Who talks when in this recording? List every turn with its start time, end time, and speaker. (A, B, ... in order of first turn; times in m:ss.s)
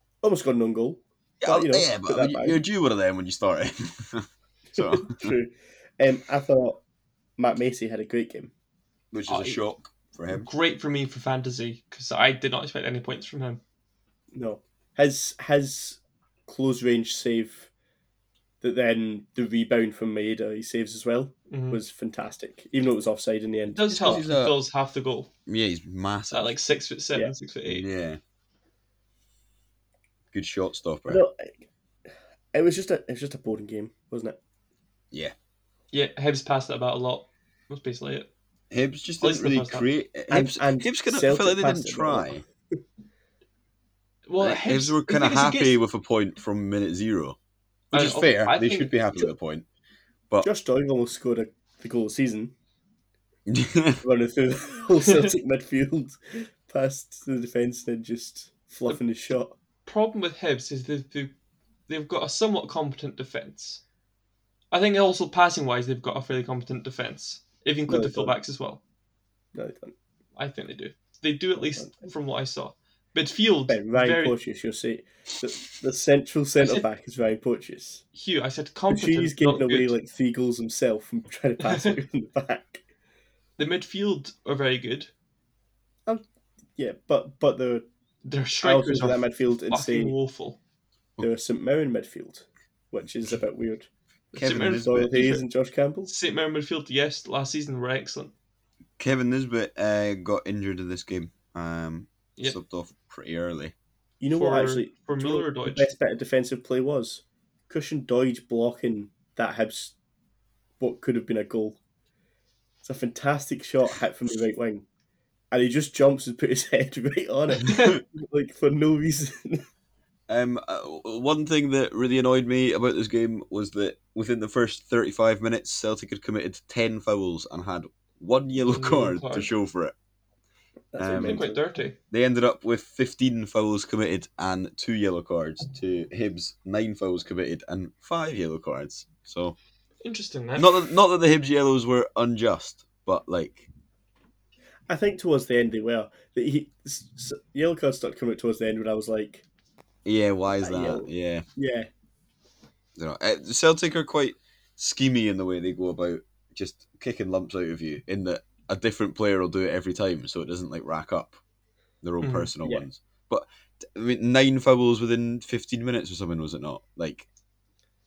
0:00.2-0:02.6 A
0:01.4-0:05.3 B
0:04.7-0:06.8 A
0:07.4-0:08.5 A
0:09.1-0:10.5 B
0:09.3-0:09.6 C
0:10.3-0:13.6 C
0:14.3-0:17.7 A
0:18.6-0:24.3 A
0:21.5-0:21.8 C
0:23.7-0:25.3 C
0:23.9-0:24.6 B
0:25.5-0:26.5 B
0:26.3-0:27.8 C
0:27.6-0:28.2 B
0:30.3-0:31.2 B
0:31.1-0:31.7 A
0:32.5-0:34.4 A
0:35.9-0:38.3 C
0:38.7-0:42.4 B
0:39.2-0:39.9 C
0:40.3-0:42.4 A
0:44.3-0:45.8 C
0:44.4-0:47.4 B
0:47.9-0:49.6 B
0:47.9-0:49.3 C
0:50.4-0:52.5 A
0:53.5-0:54.0 B
0:54.0-0:59.5 A
0:55.0-0:55.3 C
0:59.8-1:01.3 C
1:01.9-1:03.8 C
1:04.7-1:08.8 C
1:07.9-1:08.4 A
1:09.5-1:09.9 A
1:10.4-1:14.3 C
1:11.8-1:12.1 A
1:13.7-1:18.0 A
1:16.6-1:16.8 C
1:18.1-1:19.9 C
1:18.9-1:22.8 A
1:21.6-1:21.9 C
1:23.6-1:25.1 C
1:26.8-1:27.8 A
1:28.2-1:30.6 C
1:28.6-1:30.1 A
1:31.2-1:33.9 A
1:34.3-1:35.4 C
1:34.4-1:35.3 B
1:34.4-1:36.1 A
1:36.1-1:38.3 C
1:39.0-1:43.7 B
1:44.2-1:49.9 A
1:44.3-1:45.9 C
1:50.8-1:51.8 A
1:52.8-1:54.8 A
1:55.5-1:59.6 A
1:57.6-1:57.9 C
2:00.3-2:09.9 B
2:08.7-2:09.5 C
2:10.9-2:11.6 A
2:11.0-2:11.4 B
2:11.1-2:12.0 C
2:12.1-2:19.6 B
2:20.0-2:20.8 C
2:20.6-2:23.7 B
2:24.9-2:29.4 A
2:30.0-2:31.4 B
2:30.6-2:31.9 A
2:33.0-2:41.4 B
2:42.0-2:47.3 B
2:42.2-2:42.5 C